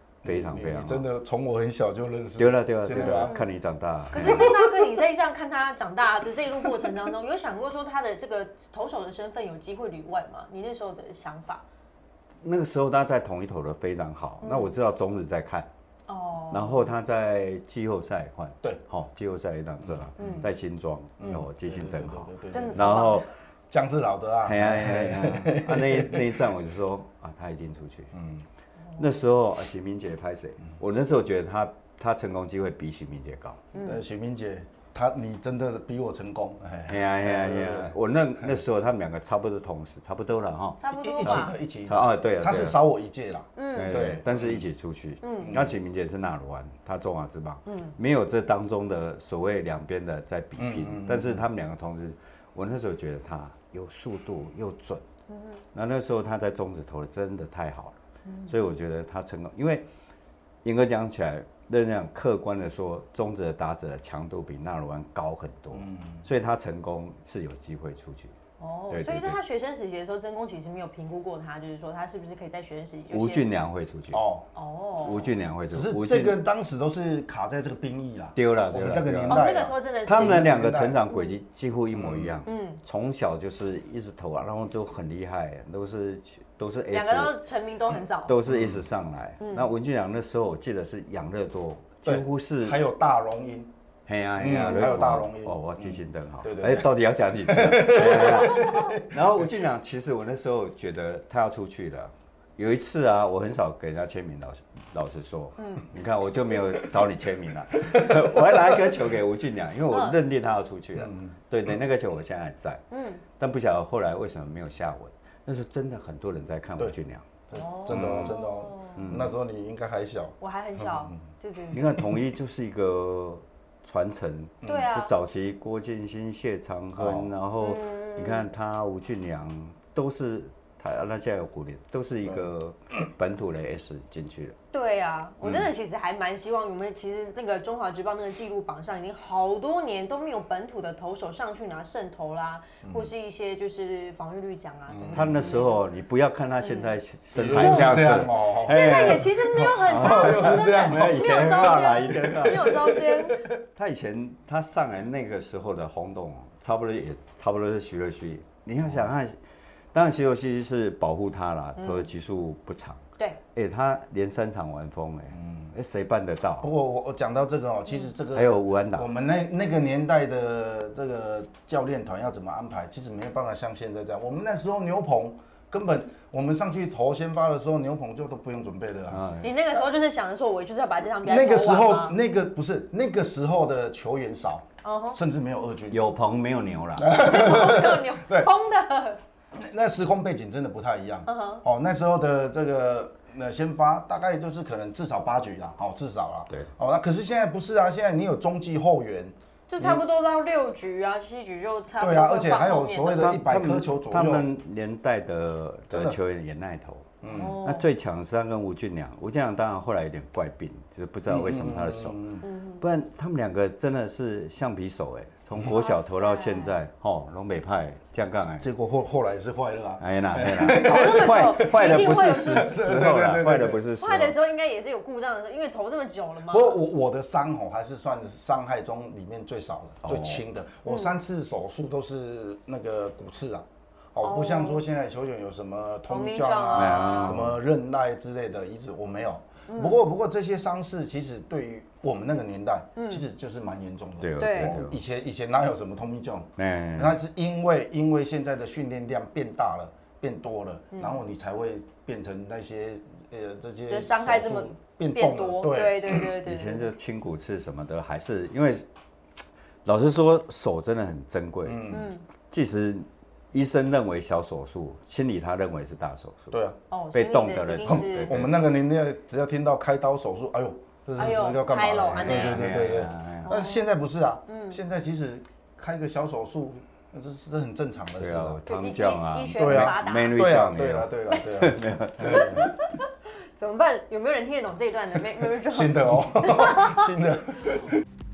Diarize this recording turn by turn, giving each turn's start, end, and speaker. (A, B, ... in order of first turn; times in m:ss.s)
0:00.2-0:01.0 A
0:00.2-0:03.4 B
0:02.4-0:04.6 A
0:03.0-0:03.4 C
0:04.1-0:11.6 C
0:04.2-0:04.8 B
0:12.4-0:15.7 A
0:14.4-0:14.7 C
0:16.1-0:16.9 C
0:16.5-0:23.2 A
0:19.8-0:20.4 B
0:20.2-0:20.5 C
0:21.2-0:23.0 B
0:22.5-0:23.2 C
0:23.7-0:26.4 B
0:24.4-0:28.1 A
0:28.1-0:28.4 B
0:29.0-0:33.6 A
0:33.8-0:38.6 B
0:36.9-0:42.8 A
0:40.8-0:41.5 C
0:40.9-0:44.7 B
0:43.6-0:44.1 C
0:43.7-0:55.0 A
0:45.2-0:45.5 C
0:45.4-0:45.8 B
0:47.7-0:48.0 C
0:50.6-0:51.4 B
0:55.3-0:55.6 C
0:55.7-0:58.0 A
0:58.2-0:58.5 C
0:58.5-0:59.8 A
1:00.6-1:08.3 A
1:05.7-1:06.2 B
1:08.6-1:13.4 C
1:08.9-1:09.4 A
1:13.1-1:14.2 A
1:14.1-1:14.5 B
1:14.6-1:15.3 C
1:15.0-1:16.4 A
1:15.7-1:21.0 B
1:18.4-1:27.3 A
1:19.3-1:20.5 C
1:21.9-1:22.4 B
1:22.4-1:22.8 C
1:26.9-1:28.3 C
1:28.3-1:32.8 A
1:28.5-1:28.8 B
1:29.4-1:29.7 C
1:32.0-1:33.7 B
1:34.1-1:52.8 A
1:34.4-1:36.9 B
1:37.4-1:39.5 B
1:38.0-1:38.8 C
1:45.6-1:45.9 C
1:47.8-1:48.9 B
1:49.9-1:50.2 C
1:51.0-1:51.3 B
1:52.9-1:53.2 C
1:53.4-1:57.3 A
1:57.5-2:01.2 B
1:57.5-1:59.0 C
1:57.9-1:58.4 A
1:59.0-1:59.4 A
2:00.4-2:01.8 C
2:01.7-2:14.6 A
2:04.6-2:05.1 C
2:07.0-2:07.3 B
2:07.6-2:08.4 C
2:14.7-2:25.8 C
2:22.8-2:23.1 B
2:24.9-2:25.6 B
2:25.1-2:33.0 A
2:26.6-2:26.9 C
2:27.3-2:33.5 B
2:27.5-2:33.4 C
2:33.6-2:39.4 A
2:39.9-2:46.7 A
2:41.8-2:42.1 C
2:45.4-2:45.7 B
2:46.6-2:59.2 B
2:48.3-2:49.1 A
2:59.1-2:59.5 A
2:59.4-3:02.2 C
3:01.2-3:06.1 B
3:04.8-3:05.2 C
3:05.9-3:07.2 A
3:07.0-3:08.5 B
3:07.0-3:09.2 C
3:09.5-3:20.0 B
3:11.3-3:11.6 C
3:19.7-3:23.3 C
3:22.0-3:24.5 B
3:23.2-3:32.2 A
3:25.9-3:26.2 B
3:27.2-3:27.6 B
3:27.3-3:27.9 C
3:31.3-3:32.4 B
3:32.4-3:32.8 C
3:32.8-3:38.7 A
3:35.7-3:36.8 C
3:38.6-3:43.8 B
3:40.0-3:44.4 A
3:40.7-3:42.7 C
3:44.0-3:46.8 C
3:46.5-4:16.3 B
3:50.0-3:50.4 A
3:50.9-3:51.1 C
3:54.2-3:54.8 C
3:56.1-3:57.4 C
3:56.7-3:57.6 A
3:59.7-4:00.0 C
4:03.0-4:03.2 C
4:04.2-4:05.0 A
4:04.4-4:04.8 C
4:06.6-4:07.2 A
4:10.9-4:11.2 C
4:13.9-4:16.9 C
4:16.2-4:18.8 A
4:19.8-4:21.8 A
4:21.6-4:22.1 B
4:21.9-4:22.2 C
4:22.5-4:26.6 A
4:26.5-4:26.8 B
4:26.9-4:28.3 C
4:27.1-4:28.5 A
4:27.8-4:38.6 B
4:31.2-4:32.6 C
4:32.2-4:33.6 A
4:33.4-4:33.8 C
4:34.5-4:34.8 C
4:38.2-4:42.7 A
4:38.7-4:40.5 C
4:39.6-4:42.6 B
4:42.2-4:42.9 C
4:43.6-4:47.1 C
4:45.6-4:48.0 B